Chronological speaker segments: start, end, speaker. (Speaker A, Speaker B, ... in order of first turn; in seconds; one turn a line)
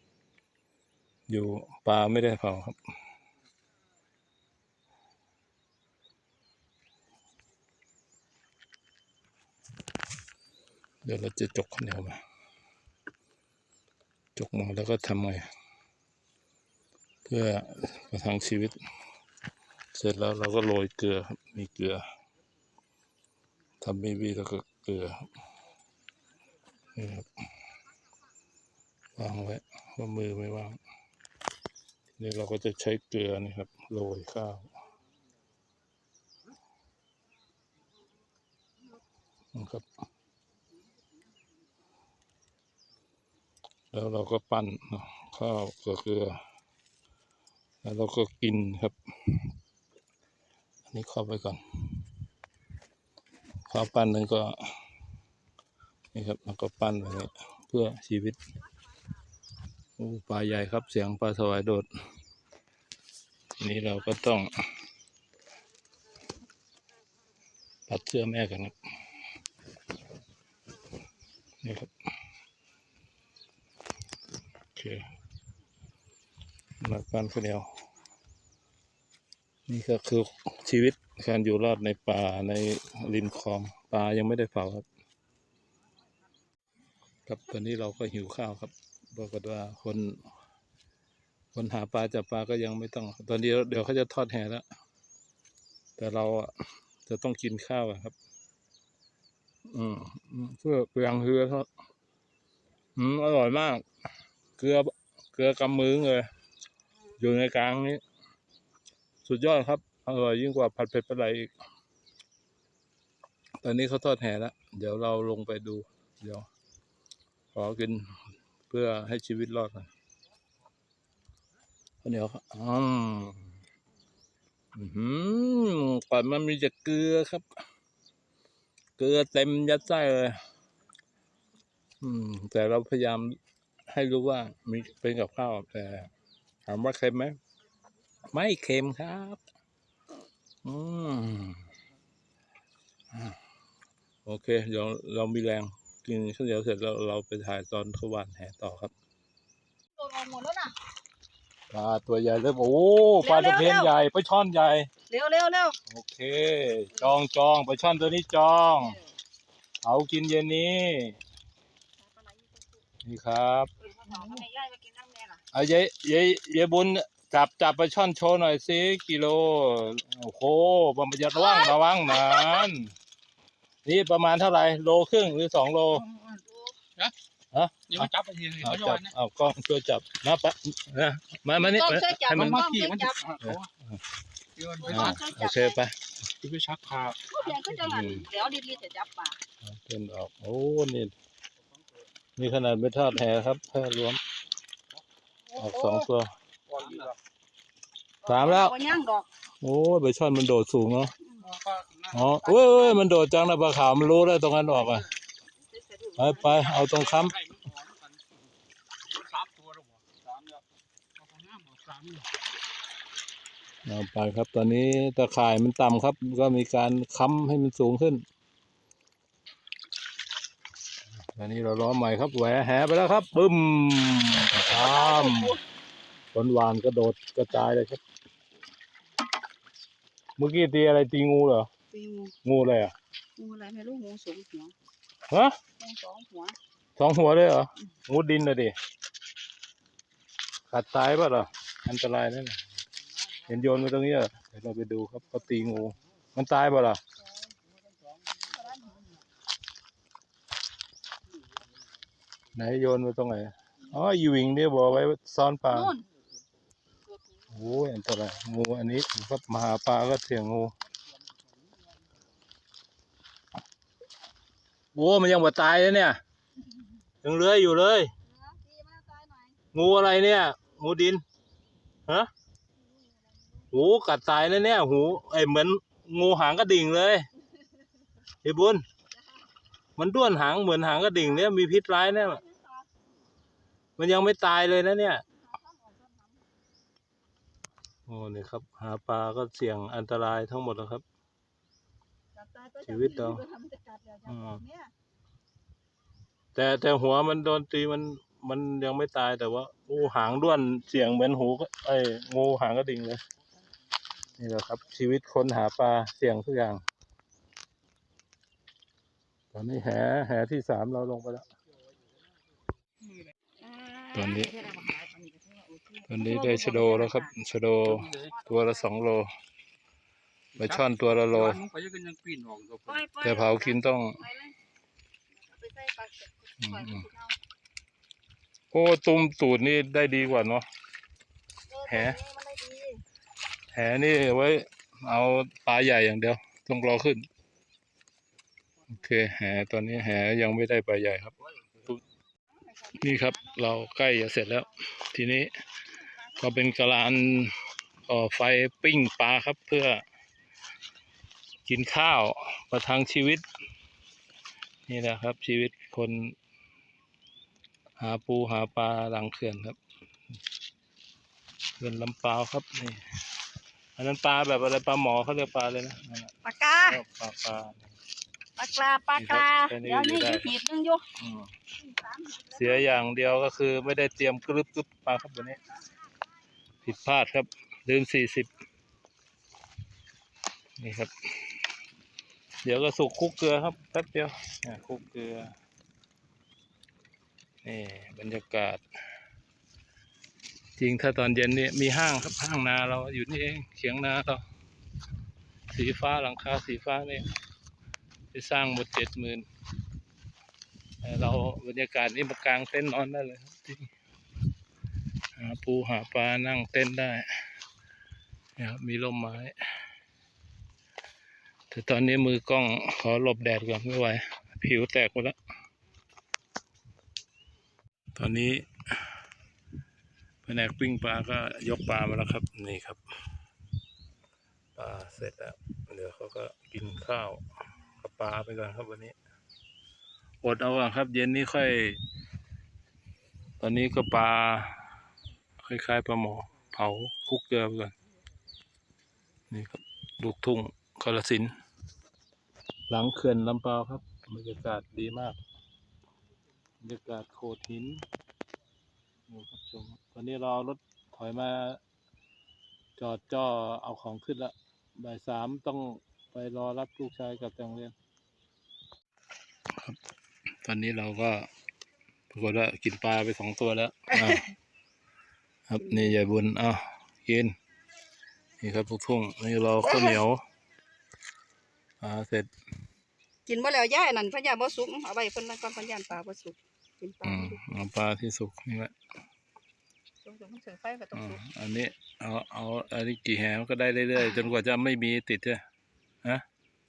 Speaker A: 1.3-2.8
Speaker A: 11.0-12.2
Speaker A: 14.3-15.4
Speaker A: 17.2-18.8
Speaker A: 19.9-22.0
Speaker A: 23.8-25.3
Speaker A: 26.9-27.3
Speaker A: 29.2-30.8
Speaker A: 32.2-34.7
Speaker A: 39.5-39.9
Speaker A: 43.9-46.4
Speaker A: 47.8-49.5
Speaker A: 50.9-52.0
Speaker A: 53.7-54.5
Speaker A: 56.1-58.4
Speaker A: 60.0-61.9
Speaker A: 63.6-64.6
Speaker A: 67.9-68.8
Speaker A: 71.6-71.9
Speaker A: 74.7-75.1
Speaker A: 76.8-77.7
Speaker A: 79.7-84.8
Speaker A: 87.2-90.2
Speaker A: 91.5-94.6
Speaker A: 96.0-96.5
Speaker A: 97.0-98.2
Speaker A: 99.7-101.7
Speaker A: 103.0-103.8
Speaker A: 104.6-106.3
Speaker A: 107.2-108.0
Speaker A: 109.2-111.5
Speaker A: 113.6-116.5
Speaker A: 117.5-118.2
Speaker A: 118.7-119.9
Speaker A: 122.0-123.5
Speaker A: 124.7-127.5
Speaker A: 129.0-130.4
Speaker A: 132.0-133.4
Speaker A: 133.9-136.1
Speaker A: 136.7-137.4
Speaker A: 138.3-139.4
Speaker A: 140.6-141.7
Speaker A: 144.2-148.9
Speaker B: 150.0-150.8
Speaker A: 151.7-154.9
Speaker B: 153.2-153.9
Speaker B: 155.1-155.8
Speaker A: 155.9-159.0
Speaker B: 158.8-159.1
Speaker A: 159.8-161.2
Speaker B: 162.0-162.8
Speaker A: 163.0-163.7
Speaker B: 163.8-165.4
Speaker A: 165.5-172.9
Speaker B: 171.3-172.7
Speaker A: 173.8-176.1
Speaker C: 176.1-176.4
Speaker B: 176.5-176.8
Speaker A: 177.5-182.7
Speaker C: 177.9-179.1
Speaker B: 181.6-183.3
Speaker C: 182.3-183.6
Speaker A: 183.4-184.0
Speaker C: 184.6-185.2
Speaker B: 184.8-185.8
Speaker A: 184.8-186.0
Speaker C: 186.4-188.0
Speaker B: 187.3-189.4
Speaker A: 187.8-188.2
Speaker A: 189.6-191.1
Speaker A: 192.4-194.2
Speaker B: 195.5-196.0
Speaker A: 195.6-196.3
Speaker C: 196.7-197.2
Speaker B: 198.2-199.3
Speaker A: 198.2-198.8
Speaker A: 199.6-201.1
Speaker C: 201.4-202.3
Speaker A: 202.1-205.1
Speaker B: 202.4-203.0
Speaker B: 205.7-206.7
Speaker A: 206.2-207.4
Speaker C: 206.8-208.1
Speaker C: 209.1-210.6
Speaker C: 211.2-212.2
Speaker A: 213.8-218.2
Speaker A: 221.3-225.6
Speaker B: 224.7-225.6
Speaker A: 226.3-228.0
Speaker A: 230.4-231.7
Speaker B: 231.9-232.3
Speaker A: 232.4-232.9
Speaker B: 233.4-234.7
Speaker A: 235.3-235.6
Speaker B: 235.8-236.6
Speaker A: 237.0-238.7
Speaker A: 240.7-242.6
Speaker A: 243.5-247.0
Speaker A: 252.5-255.9
Speaker B: 255.7-256.1
Speaker A: 257.5-260.7
Speaker A: 264.9-266.2
Speaker A: 267.2-268.1
Speaker B: 268.2-269.6
Speaker A: 269.7-271.2
Speaker B: 272.9-273.6
Speaker A: 273.7-277.3
Speaker A: 278.4-278.8
Speaker B: 279.1-279.4
Speaker A: 280.0-282.4
Speaker B: 281.6-282.9
Speaker A: 284.0-285.2
Speaker B: 285.3-286.4
Speaker A: 288.1-291.0
Speaker B: 292.3-294.9
Speaker A: 292.8-293.4
Speaker A: 294.2-294.6
Speaker A: 296.5-303.2
Speaker A: 304.4-306.8
Speaker A: 309.5-311.4
Speaker B: 313.6-317.3
Speaker A: 314.1-314.7
Speaker A: 316.1-319.3
Speaker C: 317.9-318.3
Speaker B: 318.3-318.9
Speaker C: 320.5-323.0
Speaker A: 320.6-321.6
Speaker B: 322.9-324.6
Speaker A: 323.2-324.2
Speaker B: 325.3-327.4
Speaker A: 326.6-327.1
Speaker A: 328.7-330.6
Speaker B: 331.7-333.0
Speaker A: 331.9-332.2
Speaker A: 333.7-337.3
Speaker A: 338.9-342.0
Speaker B: 342.6-344.3
Speaker A: 342.9-345.5
Speaker A: 346.3-350.0
Speaker A: 351.6-353.4
Speaker A: 354.9-356.4
Speaker A: 358.0-359.8
Speaker A: 361.8-363.0
Speaker A: 363.9-367.9
Speaker B: 366.4-367.0
Speaker B: 368.6-371.0
Speaker A: 369.1-370.5
Speaker A: 371.2-371.5
Speaker B: 371.8-373.0
Speaker A: 372.5-375.6
Speaker A: 376.8-378.5
Speaker A: 380.8-381.6
Speaker A: 382.6-385.5
Speaker A: 387.6-388.8
Speaker A: 390.8-394.4
Speaker A: 395.7-397.3
Speaker A: 398.3-399.4
Speaker A: 401.0-403.9
Speaker A: 405.3-407.3
Speaker A: 408.6-409.5
Speaker A: 411.7-415.4
Speaker A: 418.1-419.1
Speaker A: 420.4-423.0
Speaker A: 424.7-427.4
Speaker A: 428.0-429.1
Speaker A: 430.4-432.0
Speaker A: 433.6-434.9
Speaker A: 435.6-437.9
Speaker A: 439.5-441.5
Speaker A: 442.9-445.4
Speaker A: 446.8-448.0
Speaker A: 449.3-451.8
Speaker A: 453.0-457.9
Speaker A: 460.6-461.5
Speaker A: 462.3-464.5
Speaker A: 465.7-467.6
Speaker A: 468.6-470.4
Speaker B: 469.8-470.2
Speaker A: 472.0-472.5
Speaker B: 473.4-477.7
Speaker A: 477.2-478.9
Speaker B: 480.2-481.4
Speaker A: 481.1-485.6